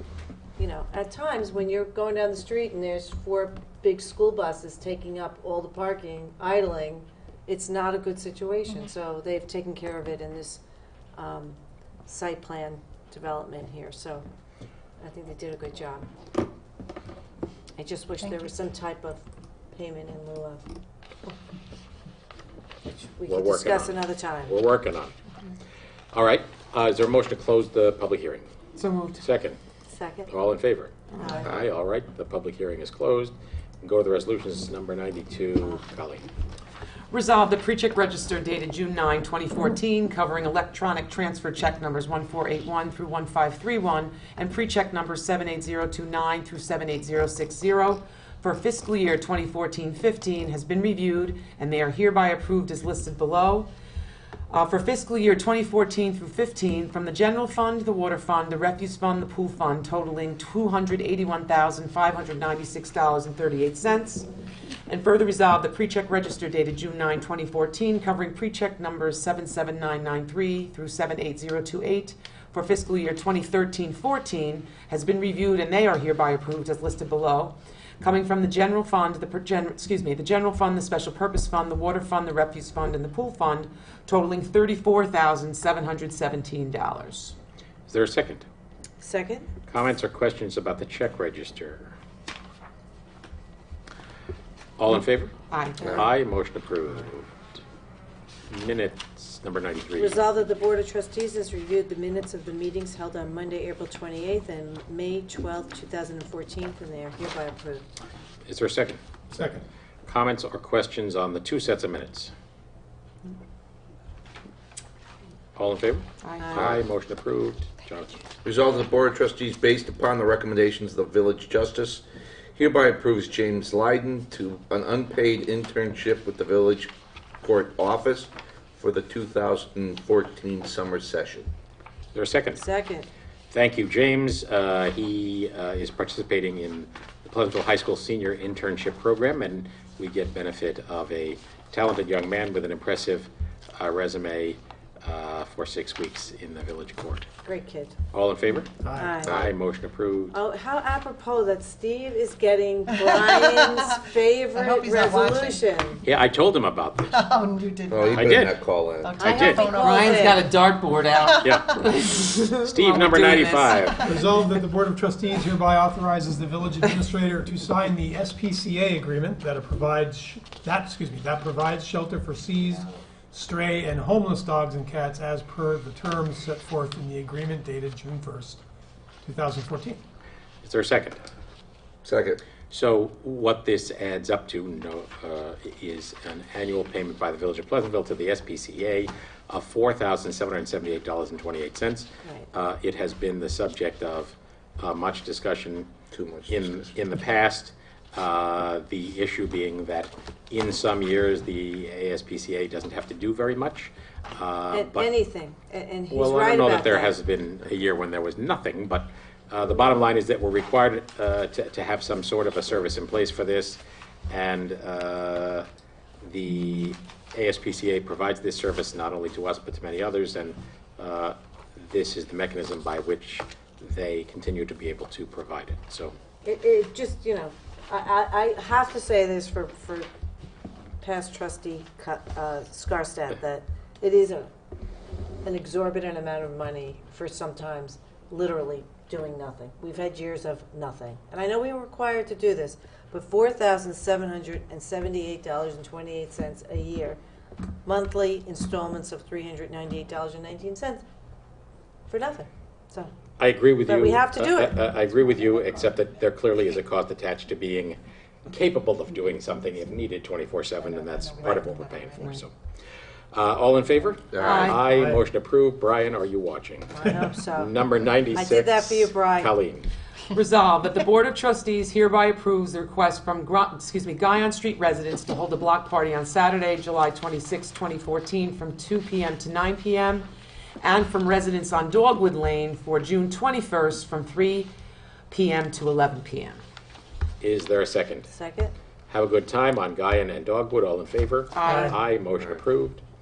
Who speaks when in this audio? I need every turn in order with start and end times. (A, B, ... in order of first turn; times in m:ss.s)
0:00.6-0:10.6 A
0:11.2-0:14.2 A
0:15.0-0:16.1 A
0:17.8-0:20.6 A
0:22.9-0:24.6 A
0:23.3-0:25.1 B
0:26.1-0:28.5 B
0:28.8-0:29.2 C
0:29.2-0:29.6 B
0:29.9-0:30.3 A
0:30.3-0:36.3 B
0:31.1-0:31.5 C
0:31.2-0:31.5 A
0:37.1-0:53.7 C
0:54.5-1:04.3 C
1:04.9-1:27.4 C
1:27.9-1:28.4 B
1:29.0-1:29.5 A
1:29.7-1:31.9 B
1:34.8-1:35.3 B
1:35.5-1:36.0 C
1:35.8-1:37.5 B
1:38.5-1:40.2 B
1:40.0-1:47.9 A
1:48.5-1:49.0 B
1:49.3-1:49.6 D
1:50.1-1:52.3 B
1:55.6-1:58.1 B
1:56.2-1:56.6 C
1:58.4-2:02.0 E
2:02.6-2:11.5 E
2:12.1-2:12.6 B
2:12.6-2:13.1 A
2:13.5-2:27.3 B
2:27.4-2:28.0 A
2:28.1-2:28.7 B
2:28.8-2:29.2 D
2:28.9-2:29.4 A
2:29.2-2:30.4 B
2:29.2-2:29.5 E
2:30.3-2:36.0 A
2:34.6-2:35.7 F
2:36.0-2:37.3 B
2:37.1-2:38.4 F
2:37.9-2:39.3 E
2:38.2-2:38.6 B
2:39.0-2:40.6 F
2:39.2-2:39.7 B
2:39.2-2:40.5 A
2:39.7-2:44.1 C
2:41.2-2:41.8 F
2:41.4-2:41.8 B
2:42.6-2:44.2 B
2:44.0-2:58.6 D
2:59.2-3:00.0 D
3:00.6-3:01.2 B
3:02.0-3:02.4 E
3:02.7-3:15.9 B
3:12.2-3:12.5 A
3:16.1-3:16.9 E
3:16.5-3:25.1 B
3:24.7-3:27.2 A
3:26.1-3:35.7 B
3:36.2-3:46.1 B
3:46.4-3:50.1 A
3:51.0-3:54.5 A
3:55.4-4:07.2 A
4:07.8-4:11.0 A
4:12.1-4:13.1 A
4:13.4-4:22.5 B
4:13.8-4:14.8 A
4:20.8-4:22.2 F
4:23.3-4:27.0 B
4:24.3-4:24.7 E
4:24.4-4:24.8 C
4:24.8-4:25.2 D
4:26.9-4:27.7 A
4:27.5-4:29.9 B
4:28.3-4:29.5 A
4:30.3-4:40.3 C
4:40.8-4:44.7 C
4:45.3-4:46.6 C
4:47.4-4:48.3 B
4:48.3-4:48.7 A
4:49.1-4:53.0 B
4:51.5-4:52.0 C